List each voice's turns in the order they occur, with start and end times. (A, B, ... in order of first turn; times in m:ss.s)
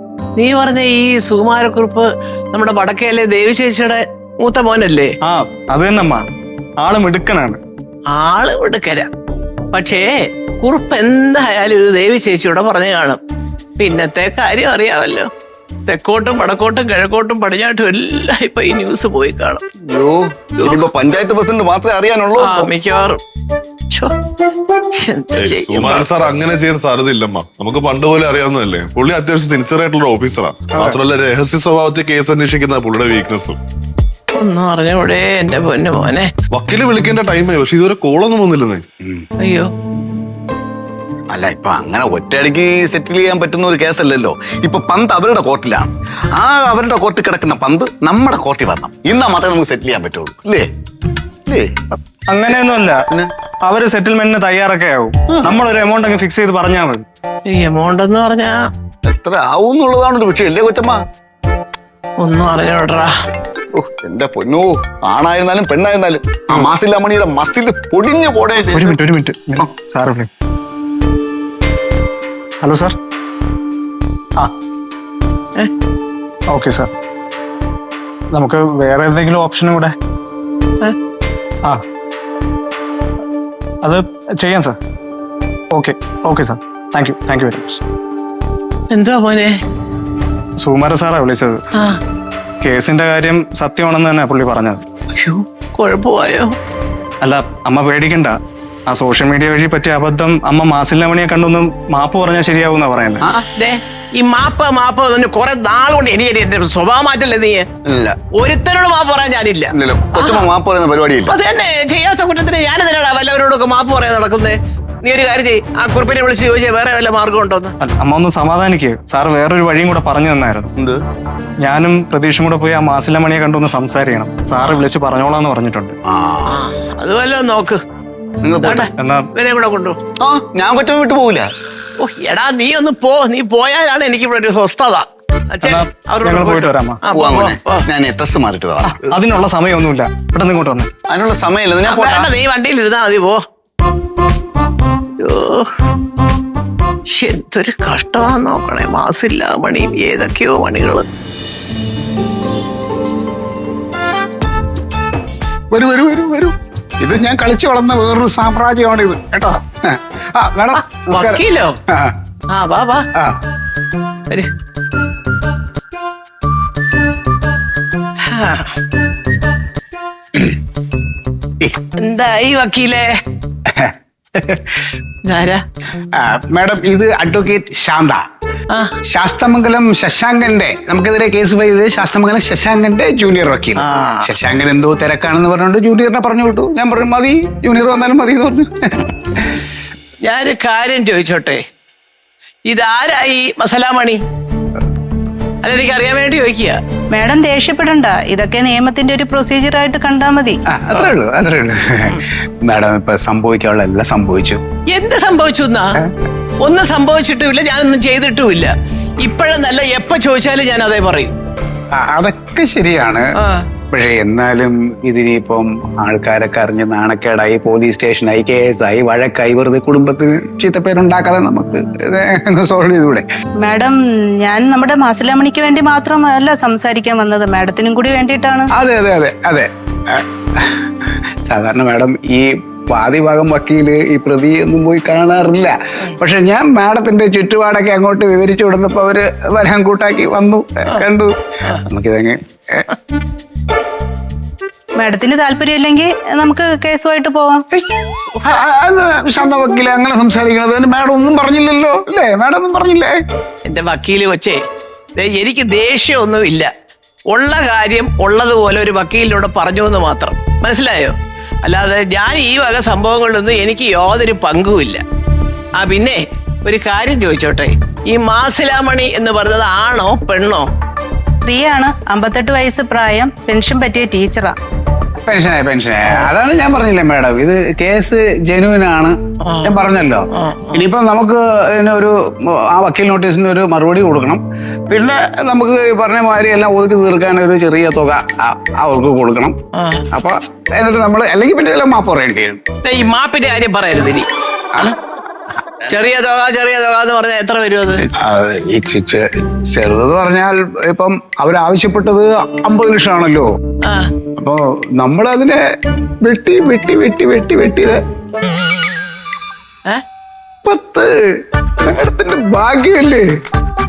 0:00.4-0:05.2 A
0:05.2-0:06.2 B
0:06.8-0:07.6 B
0:08.1-0:09.1 A
0:09.7-0:10.1 A
0:10.6-0:13.2 A
0:13.8-0:15.3 A
0:15.9-0:19.6 A
0:19.8-0:22.7 C
0:20.6-0:20.8 A
0:22.4-0:23.2 A
0:24.9-0:26.0 A
0:25.4-0:33.6 D
0:34.4-0:36.3 A
0:36.5-0:38.8 D
0:39.4-0:39.7 A
0:41.3-0:50.7 C
0:51.5-0:51.8 C
0:52.3-0:53.0 B
0:53.6-0:57.0 B
0:57.5-0:58.6 A
0:59.1-1:01.0 C
1:02.2-1:03.1 A
1:03.7-1:09.0 C
1:08.7-1:10.3 B
1:12.6-1:13.0 B
1:16.5-1:16.9 B
1:18.3-1:20.0 B
1:23.8-1:24.8 B
1:25.7-1:27.8 B
1:28.9-1:29.6 A
1:30.6-1:31.6 B
1:31.8-1:32.0 A
1:32.6-1:34.8 B
1:35.2-1:36.6 A
1:37.2-1:43.2 B
1:43.2-1:43.5 C
1:43.6-1:47.7 A
1:47.8-1:48.2 C
1:48.3-1:50.5 A
1:49.7-1:51.4 C
1:51.3-1:57.8 A
1:57.8-2:00.7 B
2:00.8-2:01.0 C
2:01.6-2:06.0 B
2:04.6-2:04.8 C
2:06.0-2:06.6 C
2:06.5-2:07.8 A
2:08.4-2:08.9 C
2:08.6-2:10.0 A
2:09.0-2:09.3 B
2:10.2-2:11.5 C
2:12.0-2:17.8 A
2:15.6-2:17.0 B
2:17.1-2:19.1 C
2:18.8-2:20.9 B
2:21.1-2:22.3 C
2:21.8-2:23.4 A
2:25.2-2:25.7 A
2:27.1-2:31.1 A
2:35.7-2:42.2 E
2:40.8-2:41.8 A
2:42.5-2:43.1 A
2:43.1-2:43.4 E
2:48.2-2:48.8 A
2:52.0-2:53.1 A
2:53.7-2:54.9 E
2:55.3-2:55.6 A
2:56.1-2:58.3 E
2:59.1-3:09.6 E
3:03.8-3:04.3 A
3:10.2-3:11.6 A
3:12.7-3:14.2 A
3:15.6-3:16.8 A
3:17.1-3:20.6 F
3:20.7-3:24.6 E
3:24.9-3:26.0 A
3:26.6-3:31.3 A
3:31.9-3:33.3 E
3:33.4-3:33.6 A
3:33.9-3:43.3 E
3:43.6-3:48.7 F
3:48.7-4:02.9 E
4:05.0-4:07.6 F
4:08.4-4:13.1 E
4:13.7-4:14.6 A
4:15.2-4:16.7 A
4:17.3-4:25.0 A
4:25.8-4:30.7 A
4:31.4-4:34.6 F
4:35.2-4:49.6 E
4:39.4-4:39.8 A
4:40.3-4:40.9 A
4:49.8-4:50.0 A
4:50.1-4:52.6 E
4:52.8-4:54.3 A
4:55.8-4:58.1 A
4:58.1-5:03.5 E
5:03.8-5:04.1 A
5:04.4-5:05.7 E
5:06.2-5:08.0 E
5:10.6-5:13.3 E